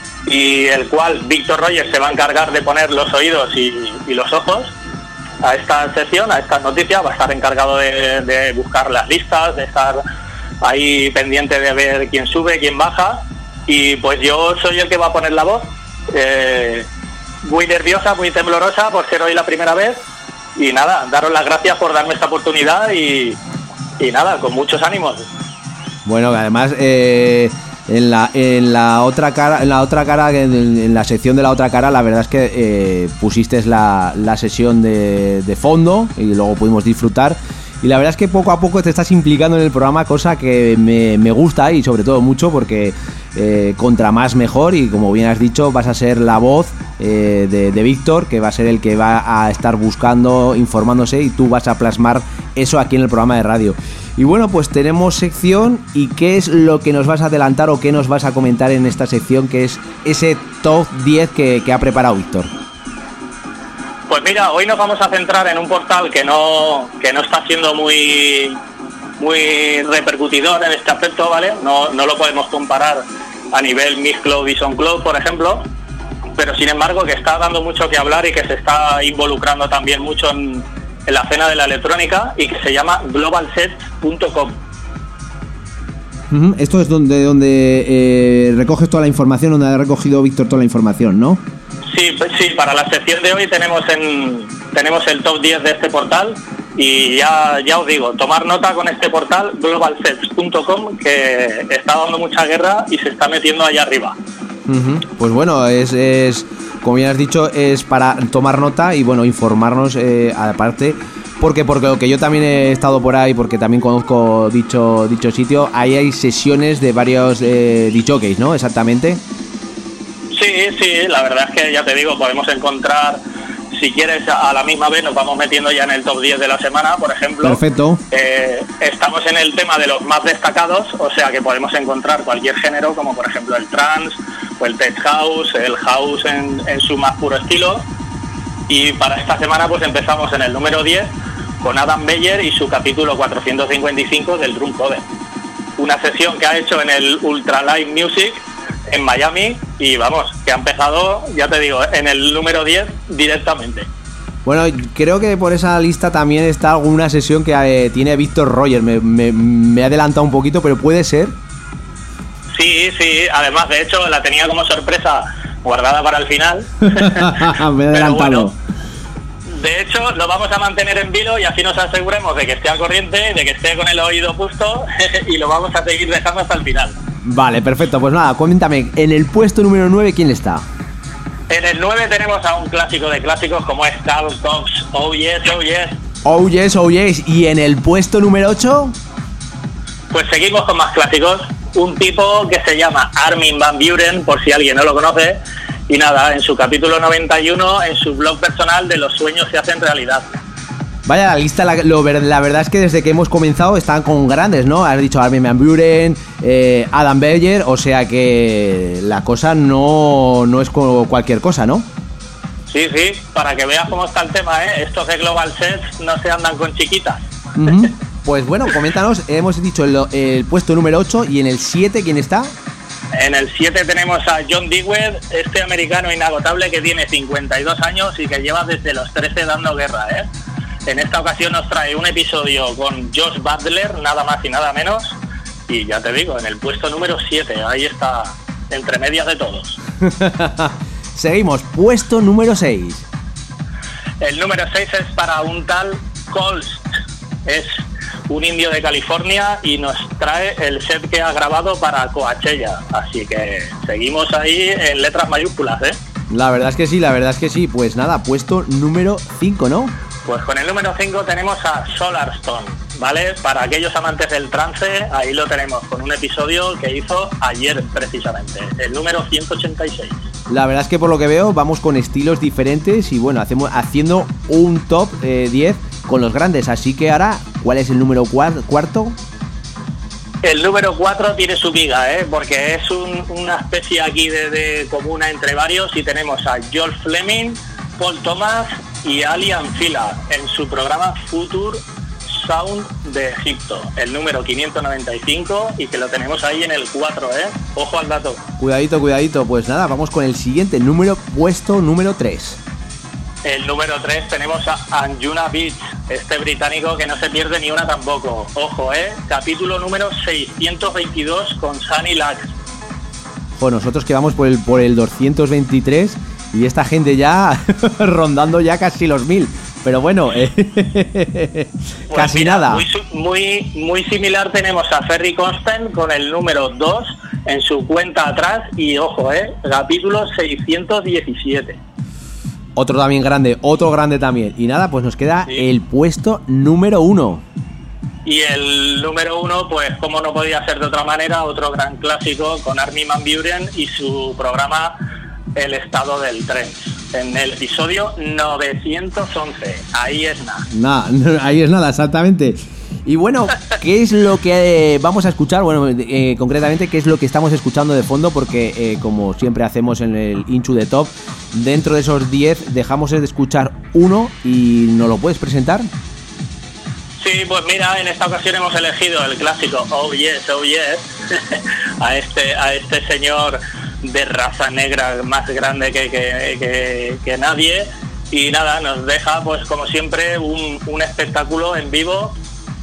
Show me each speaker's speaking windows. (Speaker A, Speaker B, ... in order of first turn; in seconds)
Speaker A: 0.2-4.7, 5.4-10.0, 10.6-16.9, 17.4-20.0, 20.6-23.4, 24.0-25.2, 64.1-68.6, 69.2-75.7, 76.4-84.6, 91.9-104.2, 120.3-123.2, 123.7-137.8, 138.7-145.0, 145.8-153.9, 162.5-168.5, 169.5-176.9, 181.5-186.0, 190.1-200.4, 212.7-217.2, 223.1-230.3, 230.8-235.2, 235.7-239.8, 244.2-246.8, 247.4-256.0, 260.2-270.2, 280.4-298.4, 303.4-312.5, 322.1-331.8, 338.2-345.0, 345.6-350.7, 367.2-382.4
Speaker B: 26.1-62.5, 86.3-91.4, 104.7-119.2, 127.4-128.0, 154.4-161.3, 166.9-168.5, 177.2-180.7, 186.2-188.9, 201.1-211.9, 217.6-222.5, 240.0-243.1, 256.3-259.9, 270.5-279.2, 298.6-302.6, 313.6-322.8, 332.8-337.4, 350.7-365.9